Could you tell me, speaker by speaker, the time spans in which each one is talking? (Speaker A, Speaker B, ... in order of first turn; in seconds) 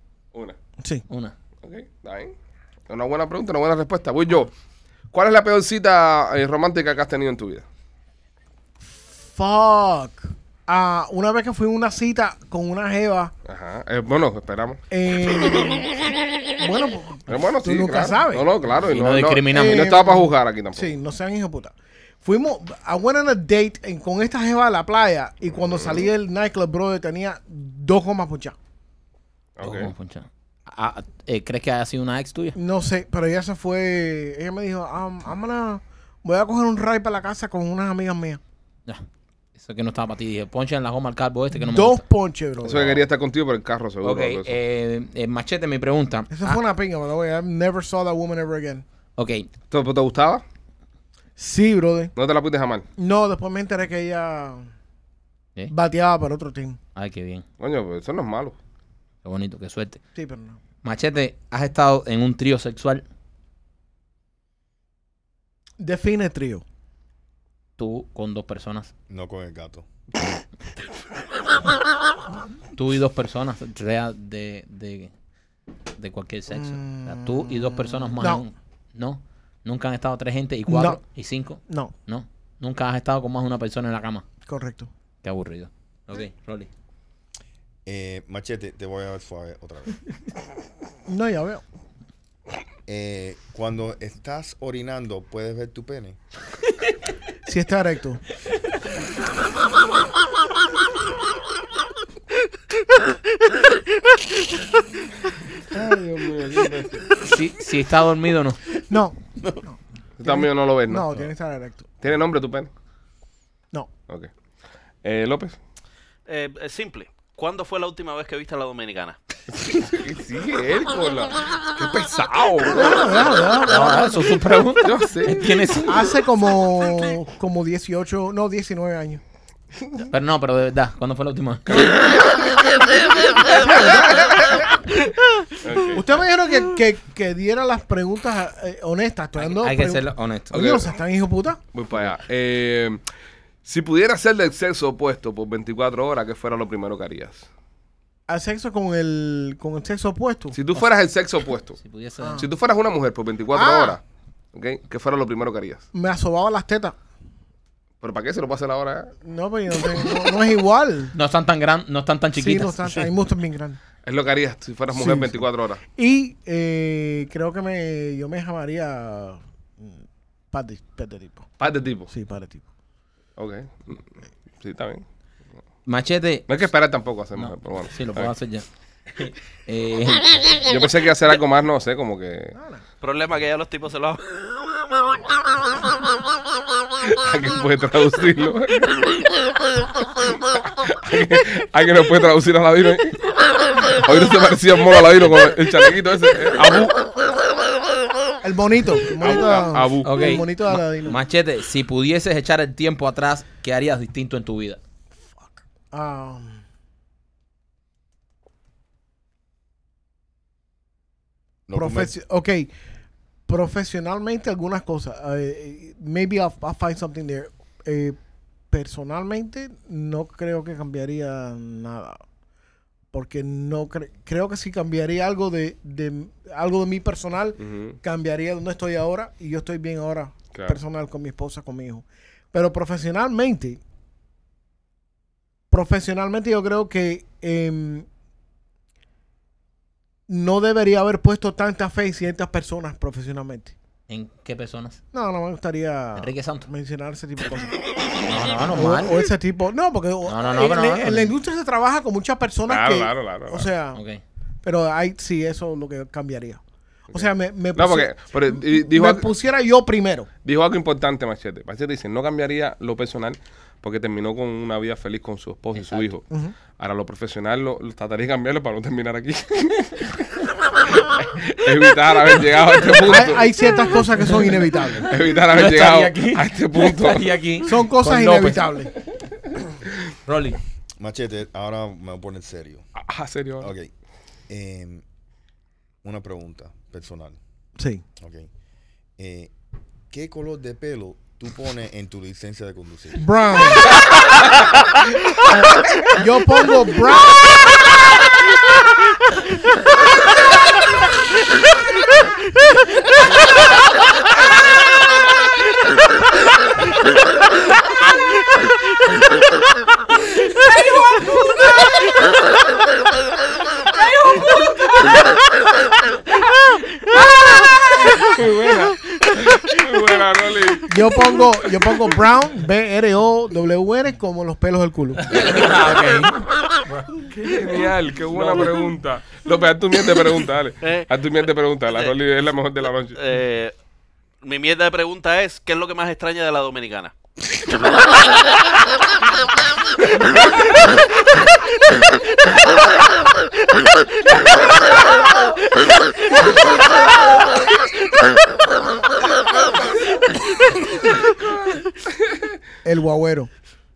Speaker A: 0.8-1.0, 9.2-13.3, 14.9-16.0, 16.6-18.5, 19.5-28.6, 32.5-38.4, 41.6-43.0, 46.3-48.8, 51.4-52.1, 53.0-54.7, 55.7-56.8, 60.1-60.6, 65.8-66.6, 76.5-78.4, 80.7-81.0, 81.7-81.9, 84.5-84.9, 91.0-91.6, 97.5-98.2, 108.9-111.9, 122.7-124.3, 125.9-129.2, 133.4-134.8, 135.9-141.6, 148.3-150.6, 152.2-152.5, 153.5-154.0, 155.9-156.9, 159.2-161.1, 162.4-163.8, 164.9-170.0, 170.5-171.5, 172.1-172.6, 182.5-182.8, 198.4-201.2, 205.4-206.6, 211.7-212.7, 213.5-218.2, 218.7-222.2, 223.1-233.8, 235.7-238.1, 240.3-243.7, 245.1-247.8, 248.7-254.0, 254.6-260.3, 266.3-266.6, 273.1-275.1, 277.6-278.9, 287.8-288.0, 293.2-293.9, 296.0-297.5, 320.9-325.6, 352.8-353.5
Speaker B: 1.1-1.3, 18.9-19.9, 29.6-32.5, 39.6-42.0, 44.0-46.6, 49.2-49.5, 56.9-57.5, 59.2-60.0, 60.8-63.0, 67.8-68.9, 72.7-75.1, 76.0-84.2, 85.2-86.7, 107.2-108.6, 123.7-126.0, 130.1-131.9, 139.4-140.6, 151.8-152.4, 161.1-163.1, 175.8-176.5, 177.3-180.7, 200.0-204.8, 244.1-245.0, 246.2-246.7, 248.2-249.2, 250.2-251.3, 253.9-254.2, 265.7-266.1, 275.5-278.9, 280.2-280.6, 325.2-327.4, 328.4-328.6
Speaker C: 1.6-2.3, 2.9-4.5, 5.1-7.6, 13.4-14.8, 17.3-20.9, 25.6-26.1, 29.6-29.9, 42.6-44.6, 49.7-50.4, 52.1-52.9, 57.6-58.6, 110.2-111.2, 112.0-112.7, 115.0-115.6, 119.5-123.3, 124.8-125.5, 133.7-134.7, 135.6-136.1, 140.5-140.9, 141.7-143.0, 143.6-147.5, 150.5-151.8, 152.3-154.0, 154.5-155.8, 158.0-159.1, 164.0-165.8, 171.6-172.1, 173.4-174.0, 174.6-175.0, 176.5-178.3, 180.7-182.5, 187.0-189.3, 190.2-193.2, 193.8-197.0, 199.2-200.2, 227.6-228.0, 230.5-230.8, 252.7-253.7, 257.1-259.3, 260.4-273.5, 275.1-277.3, 283.0-283.7, 318.1-320.9, 327.4-333.2
Speaker D: 69.1-69.8, 87.8-90.0, 92.9-96.2, 105.7-107.0, 211.7-212.1, 281.0-282.9, 283.6-283.9, 284.5-285.0, 286.0-287.4, 288.2-288.5, 289.2-289.5, 290.1-293.2
Speaker E: 116.3-119.2, 183.0-184.2, 330.8-331.1, 333.1-333.7, 334.4-337.1